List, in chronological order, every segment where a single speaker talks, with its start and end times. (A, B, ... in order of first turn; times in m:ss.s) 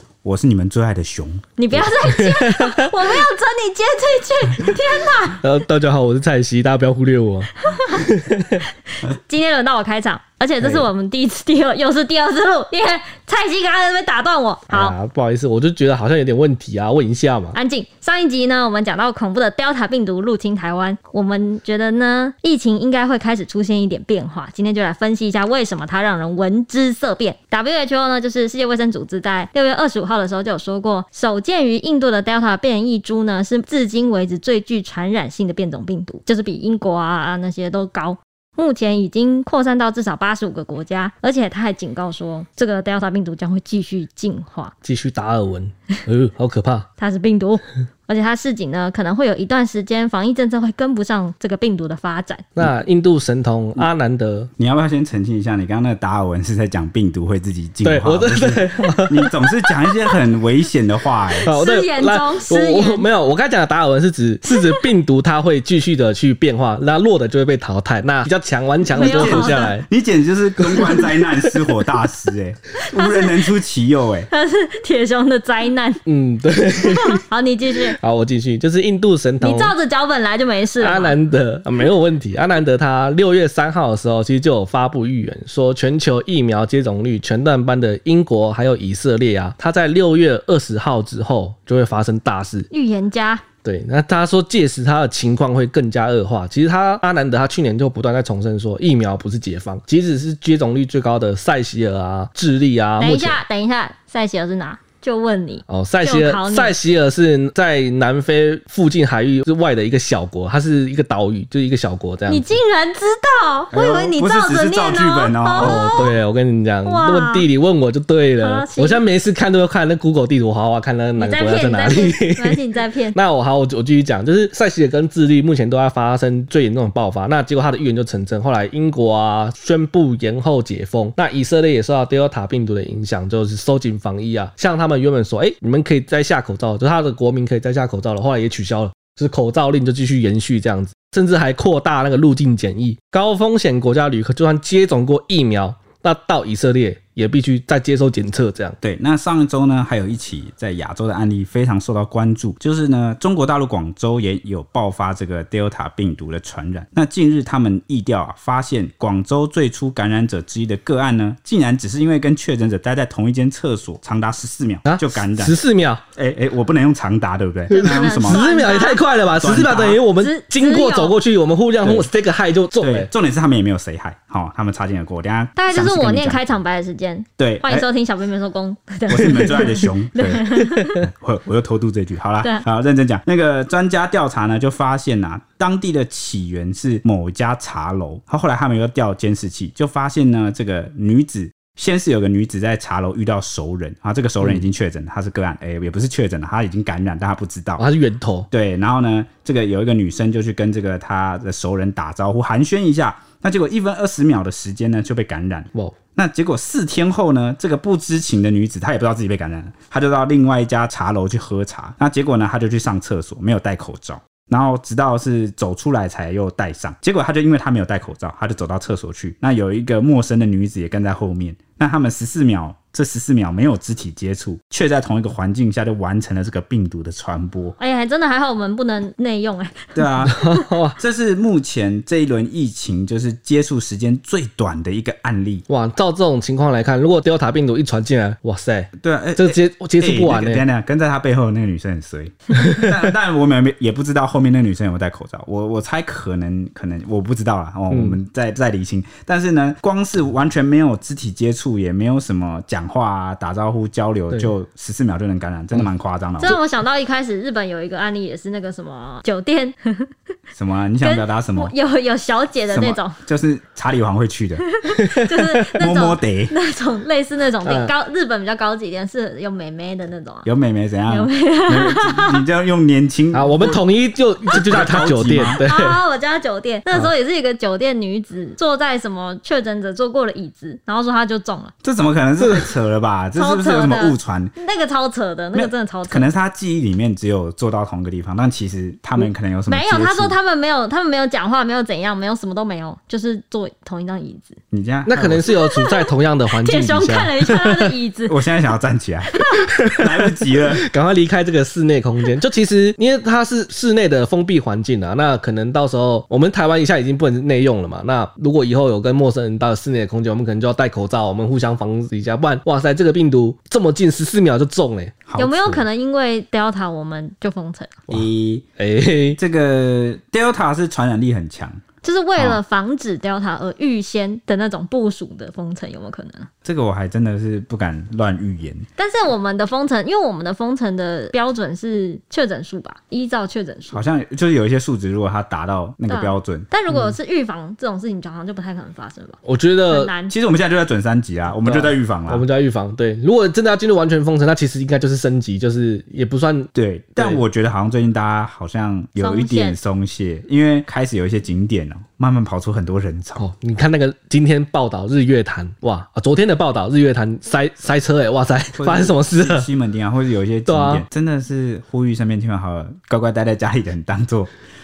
0:00.2-0:01.9 A
0:01.6-0:05.4 B
0:02.0-0:02.7 C
0:05.4-0:08.6 C
0:07.6-0:08.0 B
0:09.0-0:15.0 B
0:10.6-0:10.9 C
0:14.7-0:17.6 C
0:17.5-0:44.7 B
0:44.8-0:46.9 C
0:47.0-0:52.5 B
0:52.6-0:54.5 C
0:54.6-1:01.5 A
0:57.8-0:59.4 C
1:01.4-1:03.0 B
1:01.4-1:09.9 C
1:04.6-1:04.8 B
1:08.9-1:09.7 B
1:08.9-1:14.3 A
1:10.6-1:11.6 C
1:12.8-1:13.6 B
1:14.3-1:16.0 B
1:16.0-1:17.2 C
1:16.8-1:18.0 B
1:17.9-1:19.7 C
1:19.4-1:21.2 B
1:20.8-1:32.7 C
1:32.7-1:33.4 B
1:33.6-1:43.4 C
1:43.0-1:46.8 B
1:45.7-1:52.6 C
1:52.3-1:56.2 B
1:53.7-1:56.0 A
1:55.6-2:02.6 C
1:56.8-1:57.5 B
1:58.4-1:59.0 B
2:01.2-2:03.2 B
2:03.1-2:28.8 C
2:28.8-2:45.6 A
2:44.8-2:46.0 C
2:46.2-2:48.5 A
2:47.7-2:49.0 B
2:47.7-2:53.1 C
2:49.3-2:50.0 A
2:50.1-2:51.2 B
2:51.8-2:52.1 A
2:52.8-2:56.4 A
2:55.6-3:01.0 B
2:57.4-2:57.8 A
2:59.1-3:17.8 A
2:59.3-2:59.6 C
3:17.8-3:18.5 C
3:18.5-3:47.8 A
3:47.8-3:50.7 B
3:50.0-3:50.4 A
3:50.3-3:51.0 C
3:51.0-3:55.6 A
3:55.7-4:00.6 C
3:59.0-4:16.6 A
4:02.6-4:02.9 C
4:07.9-4:08.2 C
4:16.4-4:20.1 B
4:20.5-4:21.7 A
4:21.0-4:23.2 B
4:22.7-4:24.6 A
4:24.6-4:30.4 B
4:24.9-4:25.4 C
4:25.8-4:26.5 A
4:27.6-4:27.9 C
4:30.4-4:33.8 A
4:31.1-4:32.4 B
4:33.3-4:36.0 C
4:34.5-4:35.6 A
4:35.6-4:41.7 B
4:41.8-4:44.5 A
4:42.4-4:42.6 C
4:43.3-4:46.3 B
4:45.5-4:50.4 A
4:49.7-4:54.6 B
4:54.7-4:55.5 A
4:55.0-4:57.7 C
4:55.5-4:58.4 B
4:58.3-4:59.3 A
4:59.3-4:59.7 B
4:59.9-5:00.8 A
5:00.8-5:15.8 C
5:15.3-5:15.7 A
5:15.3-5:18.0 B
5:18.1-5:19.4 C
5:18.1-5:18.6 A
5:19.4-5:21.8 A
5:22.0-5:26.5 B
5:26.6-5:28.8 A
5:29.0-5:34.0 B
5:33.9-5:36.7 A
5:36.1-5:40.3 B
5:36.9-5:37.1 C
5:39.4-5:40.1 C
5:40.3-5:42.4 A
5:41.6-5:47.4 C
5:46.7-5:53.4 A
5:49.2-5:49.8 B
5:53.4-5:59.7 C
5:58.8-6:04.5 A
6:00.6-6:01.0 C